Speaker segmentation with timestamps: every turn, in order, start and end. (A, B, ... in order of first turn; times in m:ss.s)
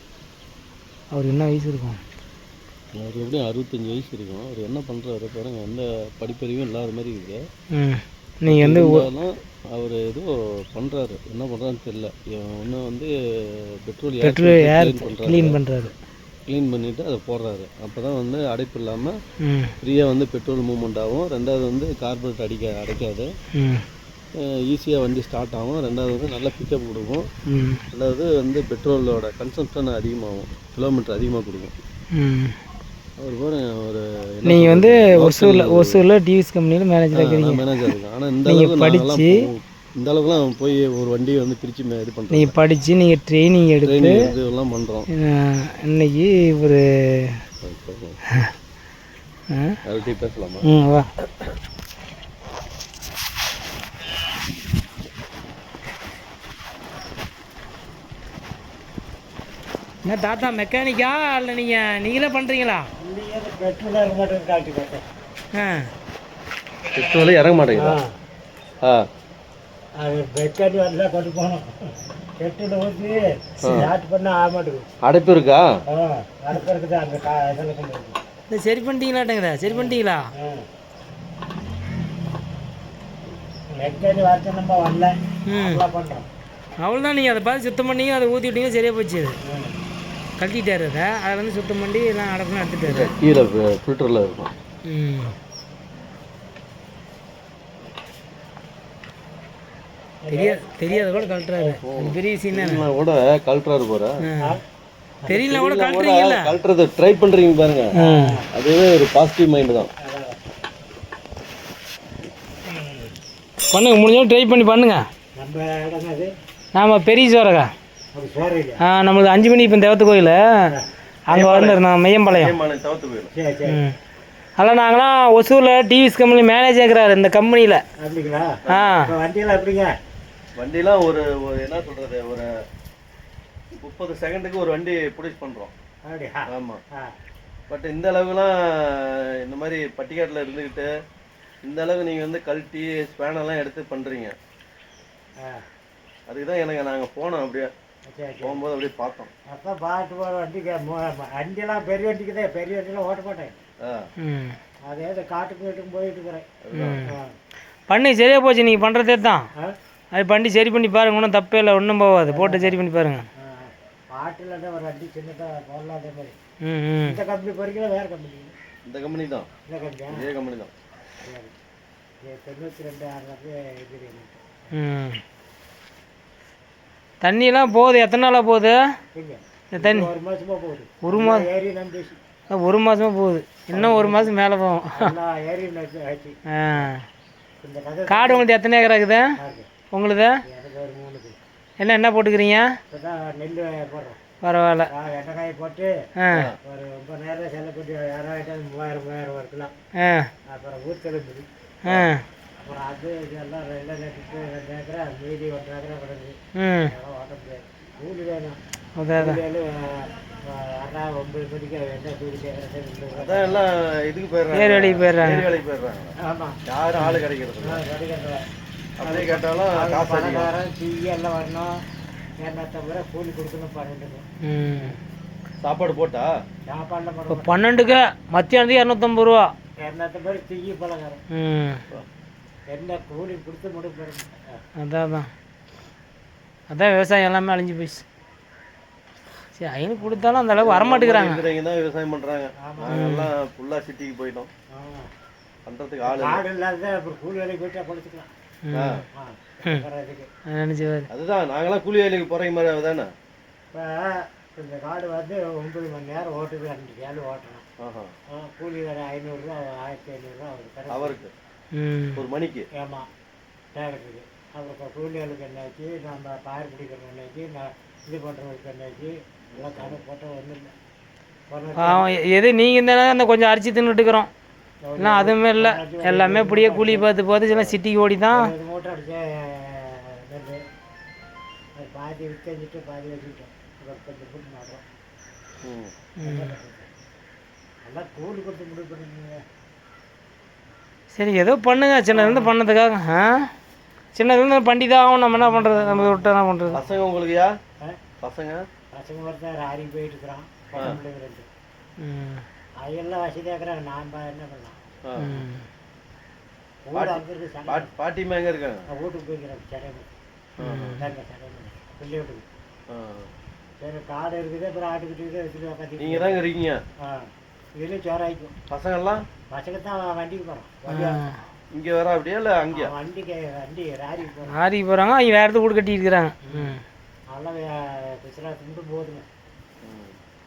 0:01.1-0:02.0 A
0:02.9-0:07.4 B
0:07.7-0:09.1 A
0:08.5-0:15.6 B
0:14.2-0:15.9 A
0:16.5-0:19.2 B
0:19.4-0:19.8 A
0:19.8-0:23.3 B
0:23.6-0:23.8 A
0:24.4-0:27.3 B
0:27.5-0:27.8 A
0:27.9-0:31.8 B
0:32.1-0:32.6 A
0:33.2-0:36.0 B
0:34.4-0:37.9 A
0:37.1-0:42.6 B
0:38.4-0:39.5 A
0:42.3-0:44.3 A
0:43.8-0:45.1 B
0:45.1-0:47.4 A
0:47.6-0:48.2 B
0:49.5-0:49.8 A
0:49.8-0:50.7 B
0:50.6-0:51.1 A
1:00.0-1:02.9 A
1:03.0-1:05.0 C
1:05.5-1:05.9 A
1:06.9-1:08.0 B
1:07.8-1:08.1 C
1:10.0-1:11.7 C
1:12.4-1:14.9 C
1:13.6-1:13.9 B
1:15.0-1:15.7 B
1:15.9-1:18.2 C
1:18.5-1:20.2 A
1:19.7-1:20.7 C
1:23.7-1:26.3 C
1:25.5-1:25.8 A
1:26.8-1:29.4 A
1:29.4-1:29.8 C
1:30.4-1:33.1 A
1:32.8-1:34.5 B
1:34.8-1:35.4 A
1:40.2-1:41.8 C
1:40.3-1:42.8 A
1:41.8-1:44.2 B
1:44.2-1:44.6 A
1:45.2-1:45.5 C
1:45.3-1:46.6 A
1:45.4-1:47.9 B
1:47.9-1:48.4 A
1:47.9-1:48.5 C
1:48.5-1:49.9 B
1:50.0-1:50.4 C
1:52.7-1:53.1 C
1:53.7-1:55.0 A
1:55.4-1:56.3 C
1:56.7-1:57.7 A
1:58.1-1:58.8 C
1:58.8-2:00.7 A
2:01.3-2:02.6 A
2:01.3-2:03.3 B
2:03.3-2:03.8 C
2:03.7-2:03.9 A
2:04.6-2:07.8 A
2:08.0-2:09.9 C
2:08.6-2:08.9 B
2:08.7-2:09.1 A
2:10.6-2:12.5 B
2:13.7-2:15.7 B
2:16.1-2:17.1 C
2:16.5-2:16.8 B
2:17.7-2:20.9 B
2:21.6-2:24.4 B
2:26.3-2:27.7 B
2:28.1-2:28.6 C
2:28.4-2:29.3 B
2:29.5-2:33.6 C
2:33.8-2:34.1 B
2:34.2-2:34.6 A
2:34.9-2:36.5 C
2:36.6-2:37.1 B
2:36.7-2:37.1 A
2:37.1-2:37.3 C
2:37.9-2:39.5 A
2:40.1-2:43.3 A
2:42.3-2:42.8 C
2:43.4-2:46.3 C
2:46.6-2:47.2 A
2:47.0-2:48.6 C
2:48.9-2:49.5 B
2:49.7-2:50.3 C
2:50.1-2:50.7 B
2:51.2-2:51.5 C
2:52.2-2:54.4 C
2:54.7-2:55.2 A
2:57.2-2:58.8 A
2:59.2-3:02.2 C
2:59.7-3:00.1 A
3:01.0-3:01.4 A
3:02.5-3:05.1 A
3:03.7-3:04.4 C
3:04.9-3:06.9 C
3:06.5-3:07.0 A
3:07.6-3:08.5 C
3:08.1-3:09.4 A
3:09.4-3:09.7 C
3:09.9-3:10.4 A
3:10.5-3:11.4 C
3:11.8-3:12.8 A
3:12.9-3:14.2 C
3:14.4-3:14.9 A
3:14.9-3:15.9 C
3:16.2-3:16.5 A
3:16.3-3:16.6 B
3:16.6-3:19.7 C
3:20.0-3:20.3 A
3:20.5-3:21.5 C
3:21.8-3:22.2 A
3:22.6-3:26.4 C
3:26.6-3:26.9 A
3:26.9-3:28.6 C
3:29.0-3:29.4 A
3:29.2-3:33.6 C
3:33.1-3:36.2 B
3:34.5-3:35.5 A
3:36.2-3:36.6 C
3:36.7-3:37.8 B
3:37.6-3:38.4 C
3:39.0-3:40.5 B
3:39.0-3:41.8 C
3:42.4-3:44.2 C
3:44.4-3:45.0 A
3:45.6-3:46.3 B
3:46.7-3:47.5 C
3:47.3-3:49.5 A
3:49.8-3:51.2 C
3:51.3-3:51.8 A
3:52.7-3:54.6 C
3:54.8-3:55.3 A
3:56.7-3:58.0 A
3:59.5-4:01.5 A
4:00.0-4:00.5 C
4:00.5-4:04.5 B
4:02.6-4:03.0 C
4:02.9-4:03.3 A
4:04.7-4:05.1 C
4:05.7-4:06.4 B
4:06.0-4:08.3 C
4:08.6-4:09.0 A
4:08.7-4:09.0 B
4:09.1-4:10.3 C
4:10.5-4:11.1 A
4:11.1-4:13.1 B
4:13.7-4:17.6 C
4:17.8-4:18.1 B
4:18.3-4:21.2 C
4:20.9-4:21.3 B
4:21.7-4:22.2 A
4:22.2-4:22.7 B
4:22.8-4:23.1 C
4:23.8-4:30.7 C
4:29.6-4:30.0 B
4:31.5-4:32.1 C
4:31.8-4:34.3 A
4:34.8-4:37.1 C
4:35.0-4:38.5 A
4:37.5-4:37.8 B
4:38.3-4:40.6 C
4:41.8-4:44.8 C
4:45.6-4:45.9 B
4:46.2-4:46.5 A
4:46.2-4:46.9 C
4:47.8-4:49.4 C
4:51.1-4:53.5 A
4:52.1-4:52.5 C
4:54.2-4:56.8 A
4:55.4-4:57.0 C
4:56.7-4:57.5 B
4:58.2-4:58.6 B
4:58.9-5:01.5 C
5:00.7-5:01.0 B
5:02.0-5:02.4 A
5:02.8-5:04.8 C
5:05.0-5:05.4 B
5:05.2-5:05.7 A
5:06.9-5:07.9 C
5:06.9-5:08.9 B
5:08.9-5:10.1 C
5:10.6-5:11.0 B
5:10.6-5:11.1 A
5:11.0-5:12.5 C
5:12.9-5:13.3 B
5:13.8-5:16.4 C
5:16.0-5:16.8 B
5:17.0-5:18.5 C
5:18.7-5:19.2 B
5:19.5-5:21.2 C
5:20.9-5:21.4 A
5:21.7-5:22.9 B
5:22.7-5:24.6 C
5:24.5-5:26.8 A
5:26.5-5:26.8 C
5:27.3-5:29.2 C
5:29.8-5:30.2 B